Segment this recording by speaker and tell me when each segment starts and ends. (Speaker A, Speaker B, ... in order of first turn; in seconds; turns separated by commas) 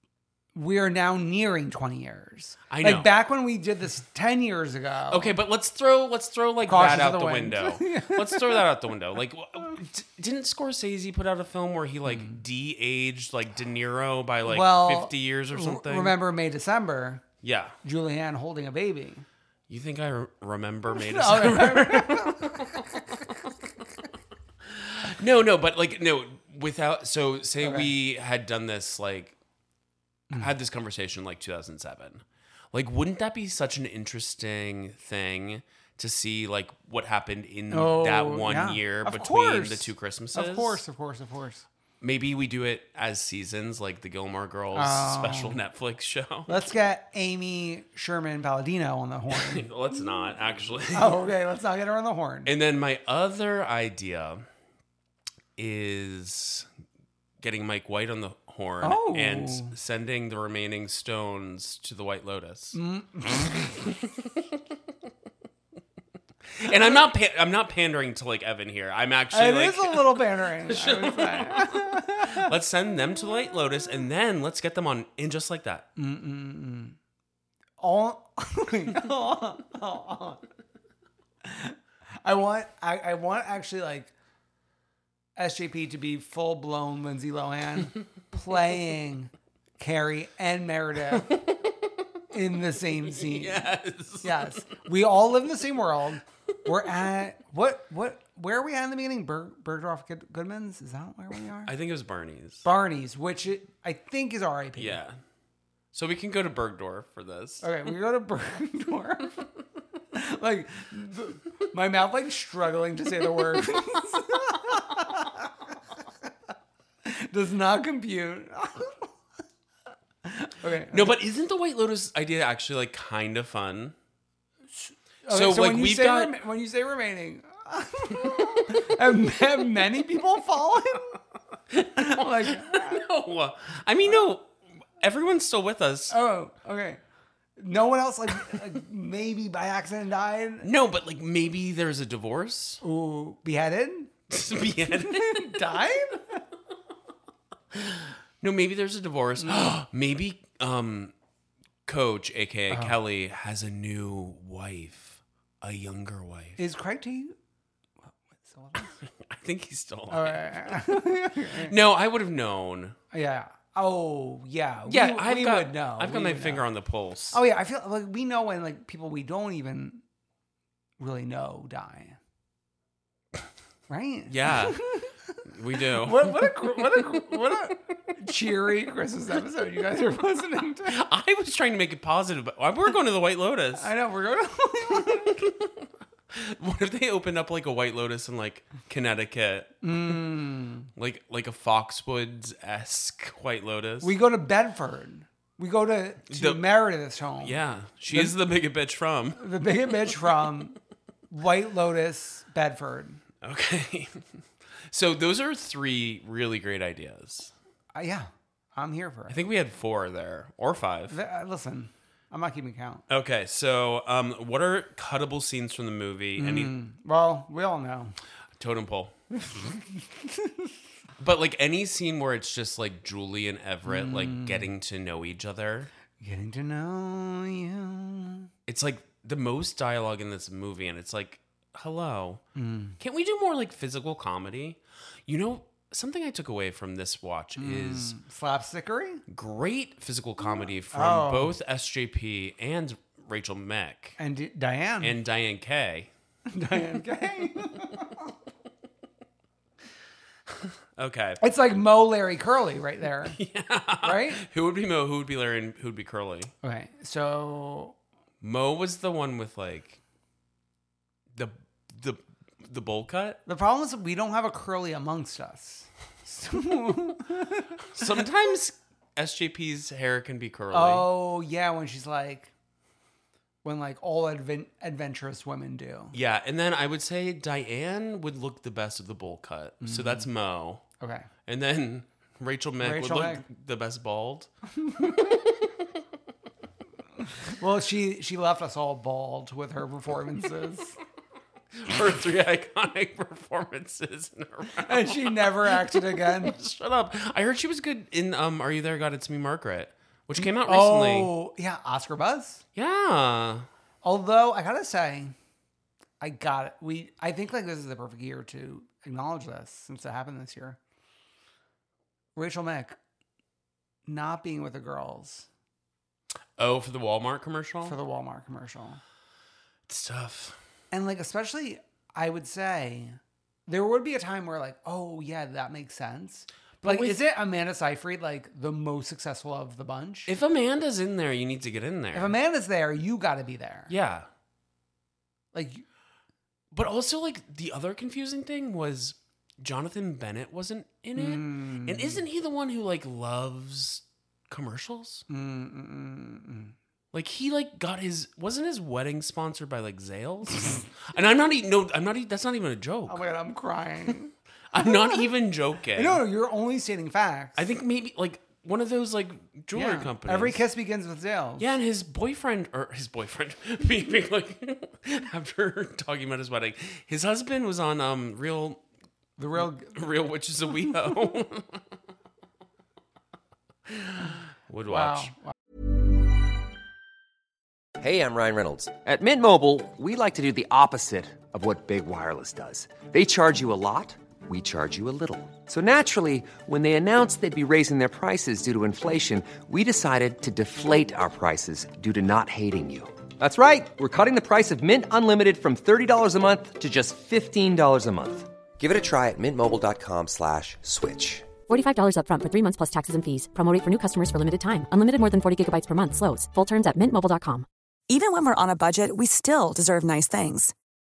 Speaker A: 0.6-5.3, Speaker B: 2.7-3.1, Speaker B: 5.1-16.2, Speaker A: 6.7-8.6, Speaker A: 12.1-12.4, Speaker A: 14.4-17.2, Speaker B: 17.4-17.8, Speaker A: 17.8-19.2, Speaker B: 19.7-23.3, Speaker A: 20.9-22.8, Speaker B: 24.7-29.4, Speaker A: 27.6-27.9, Speaker B: 30.4-40.8, Speaker A: 37.7-41.7, Speaker B: 42.0-46.5, Speaker A: 44.8-45.6, Speaker A: 46.5-49.7, Speaker B: 49.3-51.3, Speaker A: 50.9-52.5, Speaker B: 52.5-54.5, Speaker B: 55.6-56.7, Speaker B: 57.4-62.8, Speaker A: 58.8-59.7, Speaker A: 62.7-63.8, Speaker B: 66.5-75.9, Speaker A: 69.3-72.5, Speaker A: 76.0-77.0, Speaker A: 77.8-80.4, Speaker A: 81.4-84.1, Speaker A: 85.4-91.4, Speaker A: 92.3-93.7, Speaker B: 93.1-94.5, Speaker A: 94.2-101.7, Speaker B: 101.7-102.7, Speaker A: 102.6-105.0, Speaker B: 104.8-105.2, Speaker B: 105.9-107.7, Speaker A: 107.6-109.5, Speaker A: 110.1-115.5, Speaker A: 117.0-119.1, Speaker A: 120.2-121.2, Speaker B: 120.9-124.0, Speaker A: 124.7-131.2, Speaker B: 125.3-126.4, Speaker B: 131.7-134.5, Speaker A: 131.9-133.1, Speaker B: 135.0-136.2, Speaker A: 136.1-137.0, Speaker A: 137.6-140.7, Speaker B: 140.6-142.8, Speaker A: 142.8-144.1, Speaker B: 144.3-145.6, Speaker A: 145.0-146.4, Speaker B: 147.7-151.1, Speaker A: 149.4-149.7, Speaker B: 151.9-156.6, Speaker A: 152.7-153.0, Speaker A: 156.6-157.3, Speaker A: 158.3-158.9, Speaker B: 158.8-160.8, Speaker A: 160.1-161.7, Speaker B: 161.6-163.0, Speaker A: 163.1-166.7, Speaker B: 164.9-167.4, Speaker A: 167.3-170.0, Speaker A: 171.0-172.2, Speaker A: 173.9-175.2, Speaker B: 174.3-174.8, Speaker B: 175.5-177.1, Speaker A: 176.0-181.0, Speaker B: 180.9-183.9, Speaker A: 183.8-185.4, Speaker B: 185.1-185.7, Speaker B: 186.3-189.8, Speaker A: 189.8-190.9, Speaker B: 191.0-194.1, Speaker A: 194.0-197.6, Speaker B: 196.3-196.7, Speaker B: 197.4-199.4, Speaker A: 199.4-200.8, Speaker A: 201.3-203.2, Speaker B: 203.4-204.2, Speaker B: 204.9-207.5, Speaker A: 207.9-209.4, Speaker B: 209.3-211.2, Speaker A: 211.1-213.0, Speaker B: 213.1-216.7, Speaker A: 216.4-218.2, Speaker B: 218.6-219.2, Speaker A: 219.7-220.5, Speaker B: 221.2-225.9, Speaker A: 223.9-224.7, Speaker A: 226.2-228.5, Speaker B: 228.7-232.4, Speaker A: 232.6-233.0, Speaker B: 233.0-238.2, Speaker A: 237.6-239.2, Speaker B: 239.3-244.2, Speaker A: 240.9-241.5, Speaker A: 244.2-245.2, Speaker B: 245.0-246.1, Speaker A: 246.5-248.3, Speaker B: 251.0-251.4, Speaker A: 251.4-253.4, Speaker B: 253.3-256.5, Speaker A: 254.0-254.4, Speaker A: 256.6-258.0, Speaker B: 258.4-260.0, Speaker B: 261.3-263.4, Speaker A: 263.5-268.1, Speaker B: 268.0-271.1, Speaker A: 270.7-272.5, Speaker A: 273.6-276.1, Speaker B: 276.1-280.8, Speaker A: 279.8-280.3, Speaker A: 281.0-281.3, Speaker B: 281.5-284.5, Speaker A: 282.8-283.4, Speaker A: 284.8-285.4, Speaker A: 287.5-291.0, Speaker B: 291.8-301.3, Speaker A: 294.8-296.6, Speaker A: 300.4-302.6, Speaker B: 302.8-303.7, Speaker A: 304.0-305.3, Speaker A: 306.2-310.8, Speaker A: 312.4-313.0, Speaker A: 314.1-315.5, Speaker B: 316.6-318.0, Speaker A: 317.8-319.0, Speaker B: 319.9-320.6, Speaker A: 320.9-330.3, Speaker B: 326.8-327.2, Speaker B: 330.3-332.4, Speaker A: 332.1-333.9, Speaker B: 333.9-334.3, Speaker A: 335.5-335.9, Speaker B: 336.7-345.2, Speaker A: 341.2-342.2, Speaker A: 345.3-346.8, Speaker B: 347.1-353.2, Speaker A: 353.1-355.3, Speaker B: 354.7-356.2, Speaker A: 356.0-357.6, Speaker B: 357.6-360.6, Speaker A: 359.7-361.8, Speaker B: 361.6-368.8, Speaker A: 369.4-370.0, Speaker B: 369.6-371.8, Speaker B: 373.9-375.3, Speaker A: 374.9-375.5, Speaker C: 378.0-401.5, Speaker D: 401.7-407.7, Speaker E: 408.1-410.7